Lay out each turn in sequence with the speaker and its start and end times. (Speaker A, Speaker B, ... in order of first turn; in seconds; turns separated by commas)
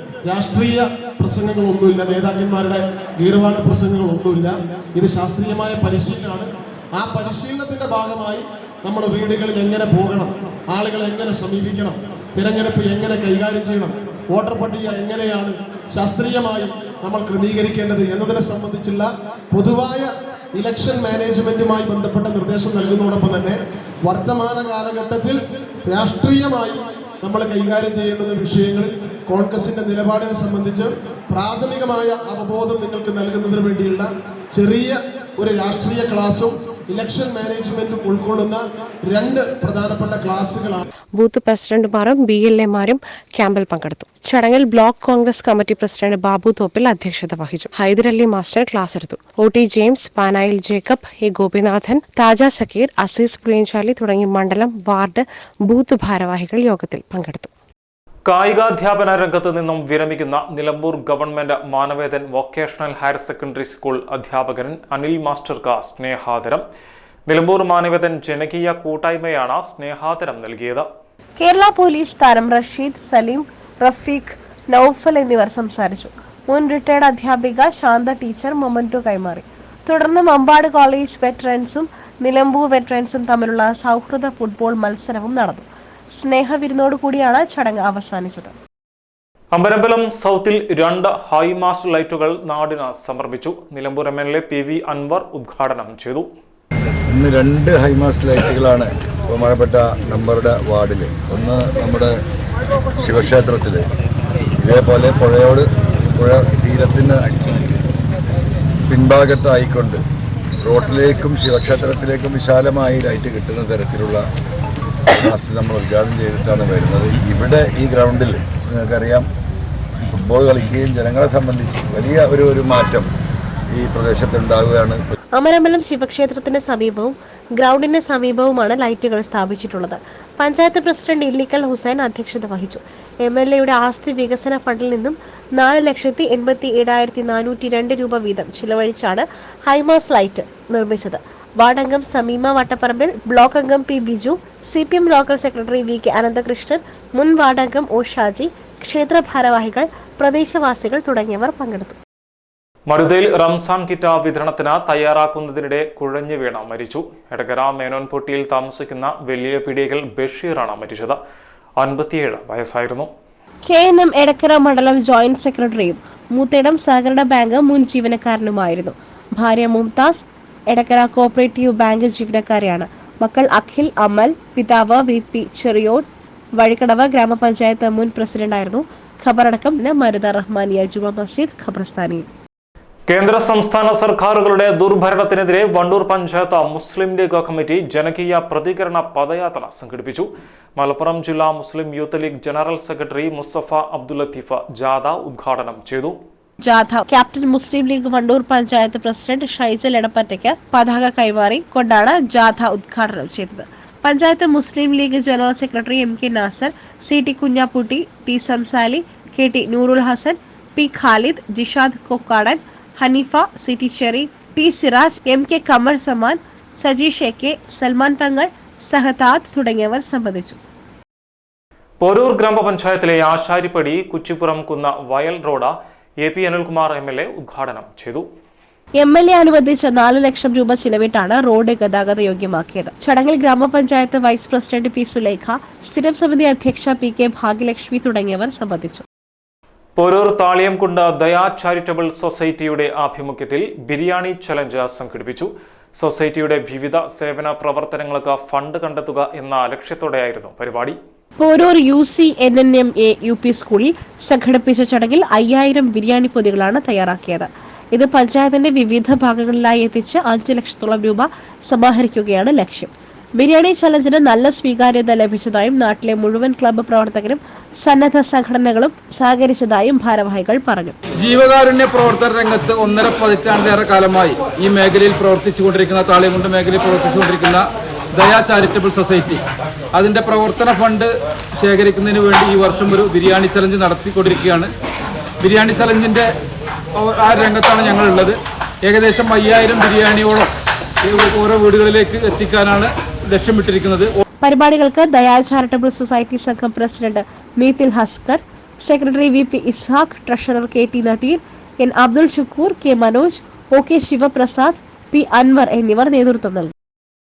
Speaker A: 0.2-40.8, Speaker B: 41.1-57.5, Speaker C: 58.3-66.6, Speaker C: 67.3-70.8, Speaker D: 71.4-85.7, Speaker D: 86.2-88.5, Speaker C: 89.5-96.2, Speaker E: 97.1-102.1, Speaker E: 103.0-103.8, Speaker E: 104.6-107.2, Speaker E: 108.9-110.0, Speaker E: 110.7-114.2, Speaker E: 115.1-119.3, Speaker E: 120.1-123.1, Speaker E: 123.7-125.0, Speaker D: 125.3-152.0, Speaker C: 152.9-161.2, Speaker C: 161.8-163.1, Speaker D: 163.6-176.0, Speaker D: 176.6-182.3, Speaker C: 183.1-190.3, Speaker C: 190.8-196.1, Speaker D: 196.6-220.6, Speaker C: 222.0-228.2, Speaker D: 229.0-239.0, Speaker C: 240.0-251.0, Speaker D: 251.4-270.9, Speaker F: 271.2-279.4, Speaker F: 279.9-284.7, Speaker F: 285.4-286.3, Speaker F: 287.0-290.5, Speaker F: 291.0-294.1, Speaker D: 294.4-306.7